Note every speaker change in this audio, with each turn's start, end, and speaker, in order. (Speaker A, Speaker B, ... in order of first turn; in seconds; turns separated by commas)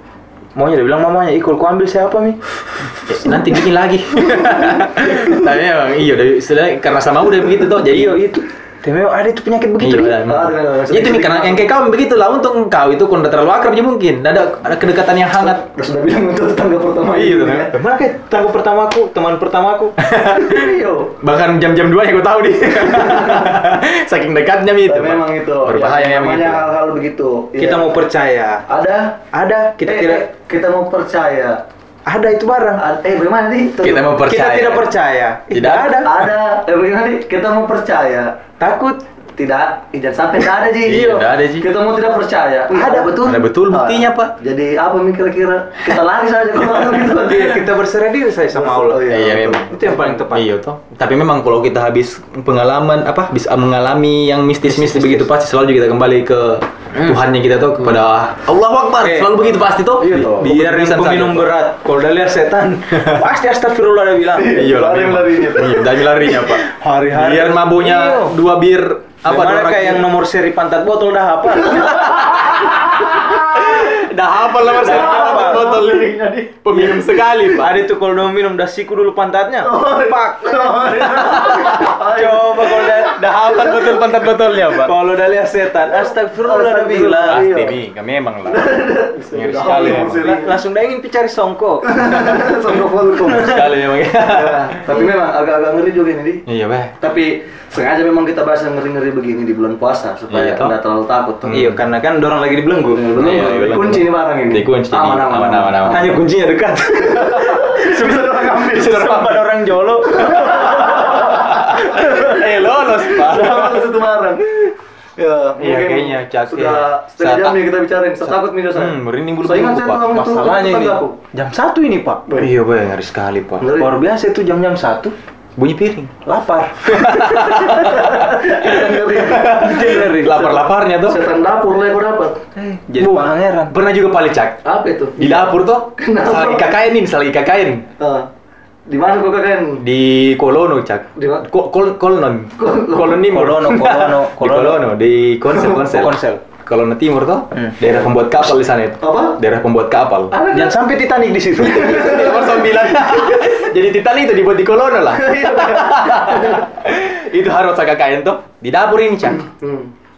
Speaker A: 0.5-2.4, Speaker B: 3.1-8.2, Speaker A: 7.8-10.2, Speaker B: 9.8-15.6, Speaker C: 10.2-11.7, Speaker C: 15.4-17.7, Speaker B: 17.1-17.7, Speaker A: 17.4-20.0, Speaker B: 20.0-26.7, Speaker C: 20.3-21.1, Speaker C: 22.9-23.6, Speaker C: 24.9-28.0, Speaker A: 27.6-28.6, Speaker C: 28.7-29.2, Speaker A: 29.3-30.3, Speaker C: 29.8-31.6, Speaker A: 32.1-32.8, Speaker C: 32.8-34.1, Speaker B: 33.8-34.9, Speaker A: 34.2-36.1, Speaker B: 35.5-36.2, Speaker C: 36.0-38.4, Speaker A: 38.6-39.0, Speaker C: 39.4-47.7, Speaker B: 40.8-41.7, Speaker A: 42.7-43.1, Speaker B: 43.2-44.3, Speaker A: 47.2-50.5, Speaker C: 48.5-50.0, Speaker B: 49.0-61.5, Speaker A: 54.6-55.3, Speaker A: 59.0-59.4, Speaker C: 60.0-60.5, Speaker A: 60.3-64.7, Speaker B: 62.9-63.3, Speaker C: 64.3-65.9, Speaker B: 64.5-70.0, Speaker A: 66.2-68.4, Speaker A: 69.2-72.2, Speaker C: 71.7-73.7, Speaker B: 72.0-77.8, Speaker C: 74.6-77.1, Speaker A: 74.8-75.7, Speaker A: 77.5-83.2, Speaker C: 79.6-83.0, Speaker B: 81.2-81.9, Speaker B: 83.0-84.9, Speaker A: 84.7-87.4, Speaker C: 85.9-87.8, Speaker B: 87.3-90.2, Speaker C: 88.5-90.6, Speaker A: 89.6-92.3, Speaker C: 91.8-96.5, Speaker B: 93.3-94.8, Speaker B: 96.5-97.0, Speaker C: 97.0-101.5, Speaker B: 100.3-100.7, Speaker B: 101.4-101.8, Speaker A: 101.5-103.8, Speaker C: 102.9-105.8, Speaker B: 103.2-106.2, Speaker A: 105.8-111.0, Speaker C: 107.0-109.5, Speaker C: 110.0-121.2, Speaker B: 111.2-113.9, Speaker B: 115.5-117.6, Speaker B: 118.2-120.1, Speaker A: 120.1-122.2, Speaker B: 122.4-123.7, Speaker C: 123.6-123.9, Speaker A: 123.8-125.1, Speaker B: 125.5-126.1, Speaker A: 126.2-127.5, Speaker B: 126.8-131.2, Speaker C: 127.2-132.4, Speaker A: 129.4-130.4, Speaker A: 132.5-133.7, Speaker B: 133.0-134.6, Speaker C: 134.6-136.7, Speaker B: 135.2-137.9, Speaker C: 138.0-138.3, Speaker C: 138.9-139.8, Speaker B: 139.8-150.3, Speaker C: 141.2-141.5, Speaker C: 142.6-143.3, Speaker A: 143.3-144.9, Speaker A: 145.8-146.4, Speaker C: 149.0-149.4, Speaker C: 150.3-150.8, Speaker A: 150.5-152.3, Speaker B: 151.6-159.4, Speaker C: 151.6-153.5, Speaker C: 155.1-156.7, Speaker C: 159.3-159.9